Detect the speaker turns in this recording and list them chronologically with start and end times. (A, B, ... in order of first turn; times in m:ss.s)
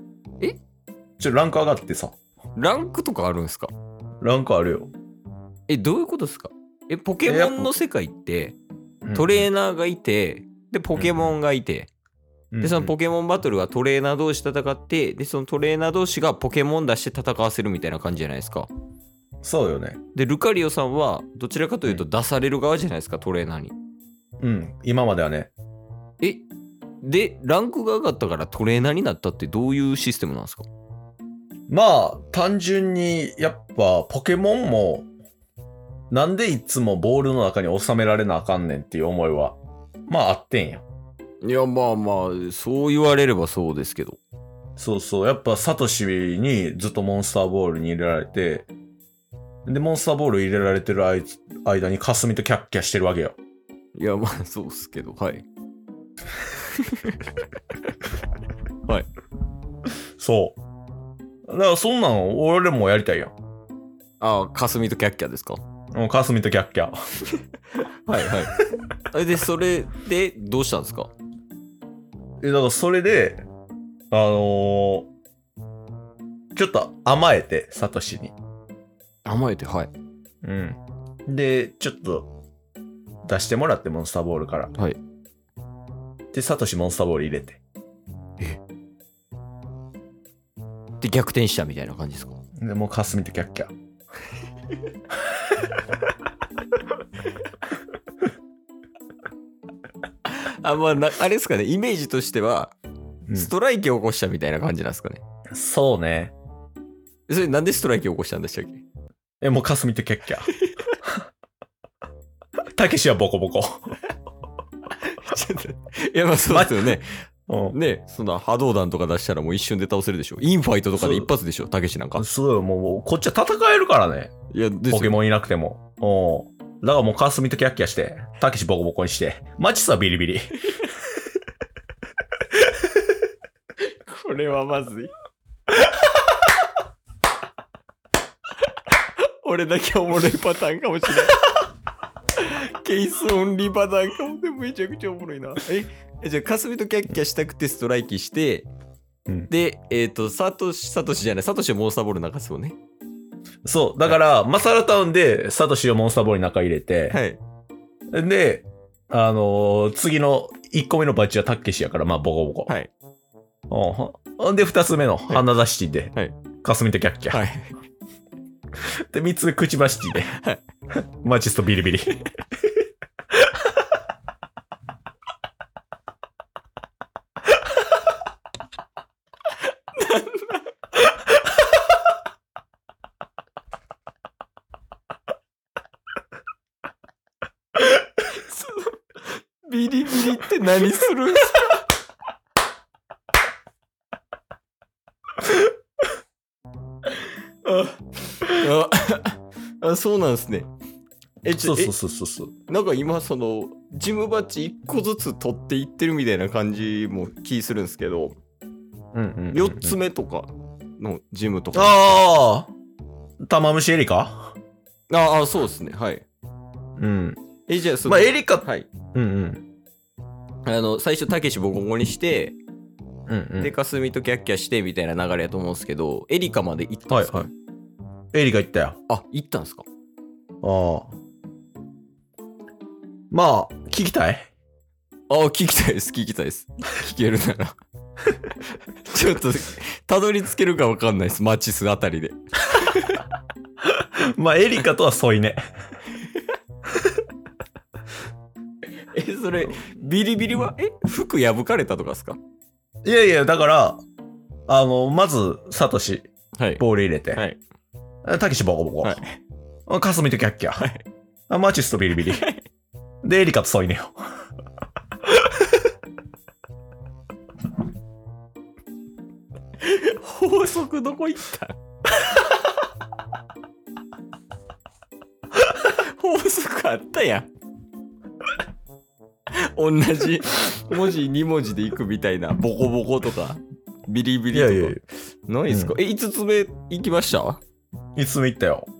0:01.2-0:02.1 A
0:02.6-0:03.7 B
0:04.2-0:04.9 A
0:05.7-0:08.6 B
0:07.2-0:07.7 A
0:09.0-0:09.5 A
0:09.1-0:11.9 B
0:10.9-0:11.3 A
0:12.5-0:12.9 A
0:12.6-0:18.7 B
0:19.4-0:20.0 A
0:20.1-0:23.7 B
0:24.4-0:25.5 A
0:27.0-0:30.7 B
0:31.7-0:35.1 A
0:36.1-0:40.8 A
0:41.4-0:44.2 B
0:44.8-0:48.7 A
0:49.7-0:53.4 A
0:53.9-0:55.4 B
0:56.7-0:57.2 B
1:00.2-1:00.6 A
1:01.5-1:03.3 A
1:04.2-1:05.6 B
1:05.9-1:06.9 A
1:07.8-1:08.6 B
1:09.1-1:11.1 B
1:12.4-1:13.4 A
1:14.1-1:15.1 A
1:16.6-1:18.3 A
1:19.2-1:19.9 B
1:20.4-1:22.3 A
1:23.2-1:24.7 A
1:26.3-1:27.6 A
1:31.0-1:32.4 B
1:32.6-1:33.7 A
1:40.2-1:42.7 B
1:43.3-1:45.2 B
1:45.5-1:46.3 A
1:47.3-1:48.8 B
1:49.4-1:50.5 A
1:50.5-1:51.0 B
1:52.7-1:54.0 A
1:54.9-1:57.1 B
1:56.5-1:57.8 A
1:57.7-2:02.2 B
2:00.9-2:01.3 A
2:02.2-2:04.3 A
2:04.5-2:05.2 B
2:04.9-2:10.5 A
2:13.9-2:15.1 B
2:19.0-2:21.5 B
2:22.3-2:28.7 B
2:29.5-2:32.8 B
2:33.6-2:37.2 A
2:37.1-2:37.4 B
2:38.1-2:42.7 A
2:43.7-2:47.4 A
2:47.3-2:47.8 B
2:48.8-2:50.4 A
2:50.3-2:50.6 B
2:50.9-2:52.1 A
2:59.9-3:01.1 B
3:08.0-3:11.9 B
3:17.6-3:20.7 B
3:21.4-3:21.9 B
3:21.6-3:22.5 A
3:22.7-3:28.4 B
3:29.1-3:30.0 A
3:29.5-3:32.2 B
3:31.7-3:32.7 A
3:33.4-3:34.6 A
3:35.1-3:36.2 B
3:37.0-3:37.4 A
3:37.7-3:38.9 B
3:38.0-3:39.6 A
3:40.6-3:42.6 B
3:43.3-3:43.7 A
3:43.6-3:47.5 B
3:47.1-3:47.5 A
3:48.3-3:49.0 A
3:49.1-3:49.8 B
3:50.6-3:51.1 A
3:53.3-3:54.5 A
3:55.3-3:57.8 B
3:58.9-4:03.3 B
4:03.8-4:05.6 A
4:09.1-4:12.4 B
4:13.0-4:14.0 A
4:14.7-4:17.4 A
4:16.6-4:16.8 B
4:17.3-4:17.6 B
4:18.2-4:19.2 A
4:19.0-4:19.4 B
4:19.9-4:20.8 A
4:20.8-4:21.0 B
4:21.5-4:22.5 A
4:22.2-4:22.6 B
4:23.2-4:24.2 A
4:29.8-4:31.8 B
4:35.6-4:37.5 B
4:39.5-4:47.6 B
4:44.5-4:45.0 A
4:45.7-4:46.0 A
4:48.2-4:48.9 A